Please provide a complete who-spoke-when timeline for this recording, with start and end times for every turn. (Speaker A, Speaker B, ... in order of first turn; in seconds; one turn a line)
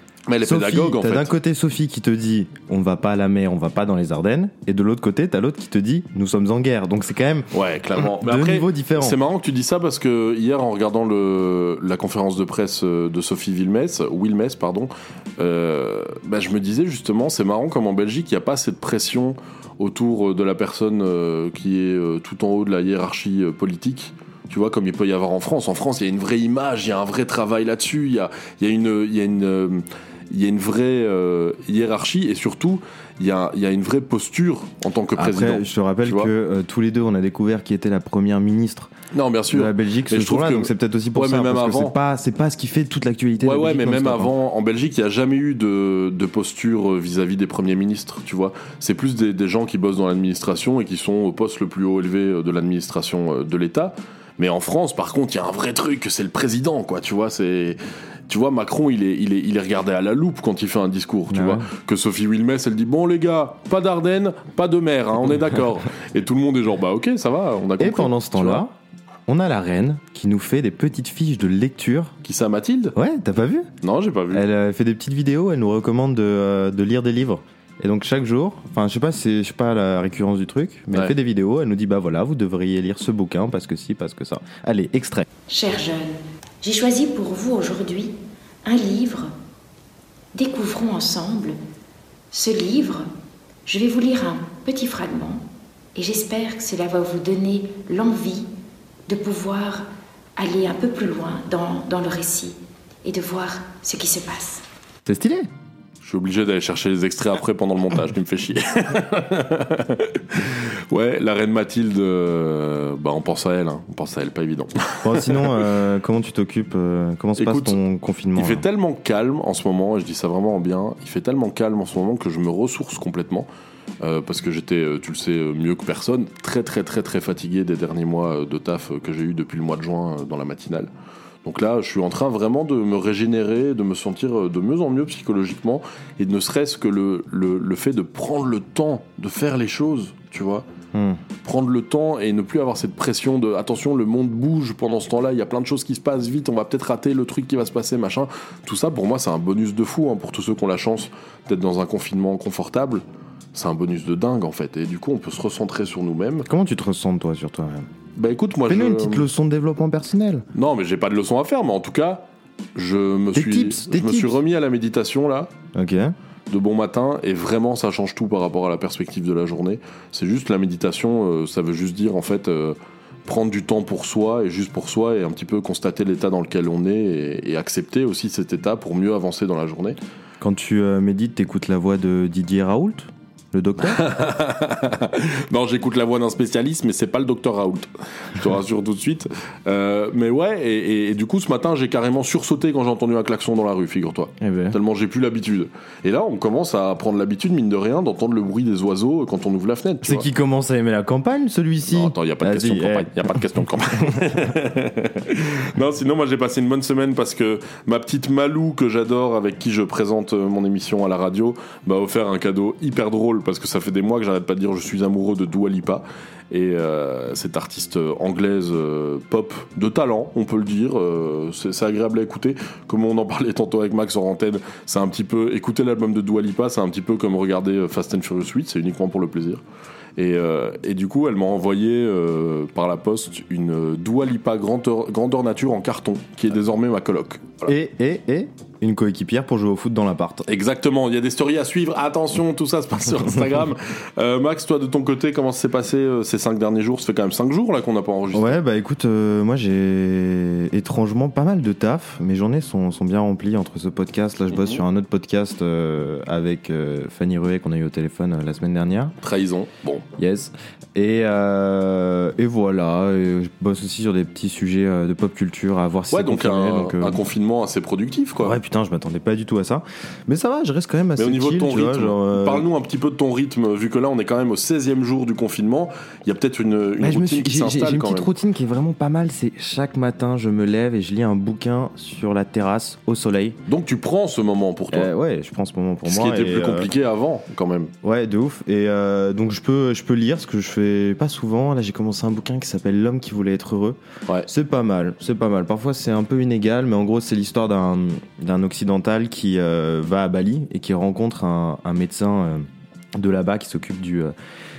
Speaker A: 0.3-1.4
Speaker B: 0.4-9.2
Speaker A: 7.5-36.3
Speaker B: 35.2-38.9
Speaker A: 39.1-42.0
Speaker B: 39.5-44.3
Speaker A: 43.4-68.6
Speaker B: 61.3-61.7
Speaker B: 67.8-68.7
Speaker B: 69.3-72.2
Speaker A: 72.2-73.0
Speaker B: 73.0-73.7
Speaker A: 73.8-74.5
Speaker B: 74.3-85.3
Speaker C: 85.5-88.1
Speaker C: 88.7-89.3
Speaker C: 90.3-91.6
Speaker C: 92.3-93.1
Speaker C: 93.7-98.5
Speaker C: 99.1-104.6
Speaker B: 105.0-105.5
Speaker A: 106.0-115.6
Speaker B: 115.0-118.7
Speaker A: 117.4-117.8
Speaker A: 118.4-123.5
Speaker A: 124.0-130.9
Speaker A: 131.4-140.7
Speaker B: 140.9-141.2
Speaker A: 141.4-156.5
Speaker B: 156.5-157.9
Speaker A: 158.2-159.2
Speaker B: 158.7-160.5
Speaker A: 160.5-165.5
Speaker B: 163.3-164.4
Speaker B: 165.7-166.2
Speaker A: 166.5-180.0
Speaker B: 180.4-184.0
Speaker A: 183.8-200.3
Speaker B: 194.4-194.8
Speaker B: 200.0-203.4
Speaker A: 201.9-229.6
Speaker B: 204.0-204.5
Speaker A: 230.2-237.7
Speaker B: 237.7-240.4
Speaker A: 240.5-248.6
Speaker B: 248.3-259.1
Speaker A: 254.5-254.8
Speaker A: 259.2-260.1
Speaker B: 260.2-267.2
Speaker A: 266.1-268.6
Speaker B: 268.4-272.7
Speaker A: 271.2-278.3
Speaker B: 277.0-283.6
Speaker A: 283.7-285.1
Speaker B: 284.9-286.9
Speaker A: 286.1-287.9
Speaker B: 288.0-304.3